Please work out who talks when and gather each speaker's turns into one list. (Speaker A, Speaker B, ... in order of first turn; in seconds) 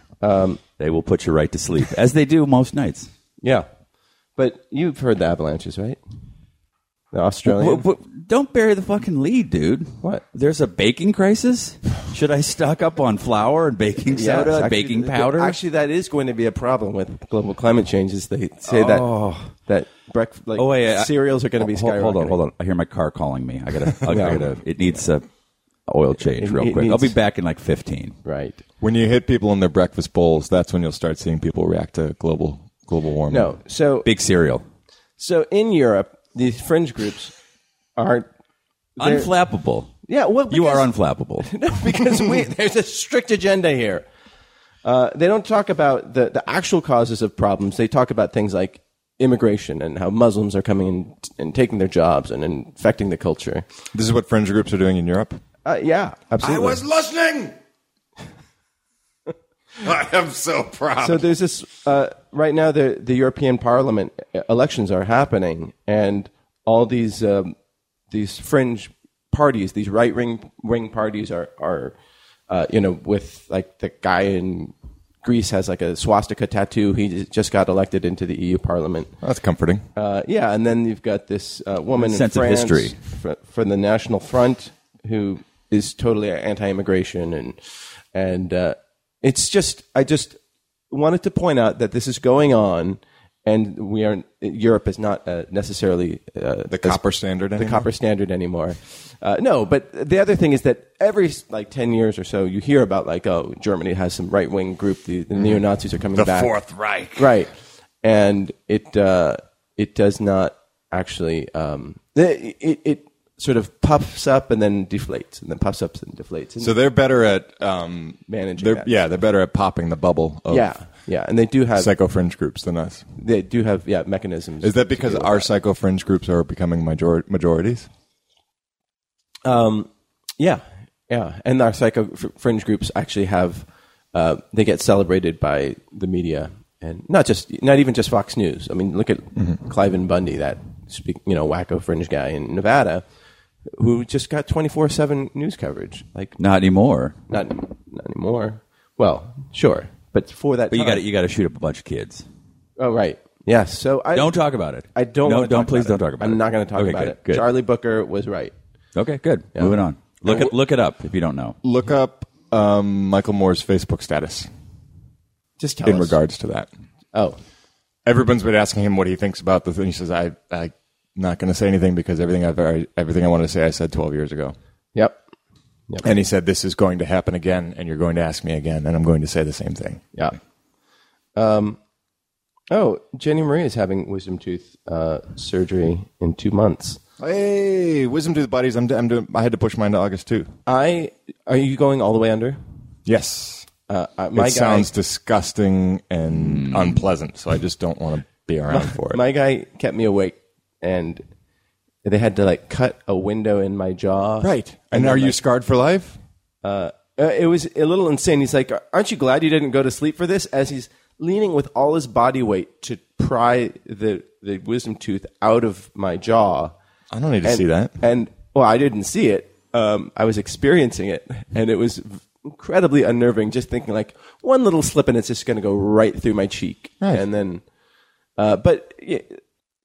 Speaker A: 0.2-0.6, 3.4-3.7, 4.3-6.0, 7.1-7.8, 14.1-22.4, 24.0-24.5, 26.3-27.1, 28.2-28.6, 33.3-34.1, 35.2-37.3, 38.0-38.3, 39.0-39.3, 40.1-40.9, 41.4-44.0, 44.8-53.6, 55.6-56.8, 61.0-67.5, 68.1-72.0, 72.5-79.1, 80.0-87.6, 88.1-90.4, 90.9-97.0, 97.5-106.5, 107.2-107.5, 108.0-116.7, 118.3-119.0, 120.5-121.9, 123.2-125.5, 129.4-143.0, 143.8-146.4, 147.3-151.1, 152.8-154.3, 154.9-158.5, 165.6-166.2, 167.1-167.4, 175.9-176.2, 181.3-181.8, 182.7-187.0, 190.7-192.6, 193.9-194.9, 198.7-201.2, 202.0-205.4, 206.6-216.7, 217.4-227.6, 228.4-229.4
Speaker B: 0.8-3.1, 7.5-15.6, 18.7-19.5, 20.6-25.3, 25.9-28.2, 34.0-34.6, 39.0-40.0, 40.5-41.5, 82.0-83.0, 146.4-147.2, 150.7-152.2, 154.1-157.5, 158.9-161.6, 196.4-196.9
Speaker C: 28.8-33.5, 53.9-55.4, 56.4-57.5, 59.8-61.3, 79.2-79.8, 96.7-97.9, 106.1-107.3, 116.6-120.7, 121.7-123.1, 124.6-127.9, 161.6-164.5, 165.8-166.7, 168.0-174.5, 176.0-180.1, 187.2-190.5, 193.1-193.7, 194.3-199.2, 204.4-206.2, 217.1-217.9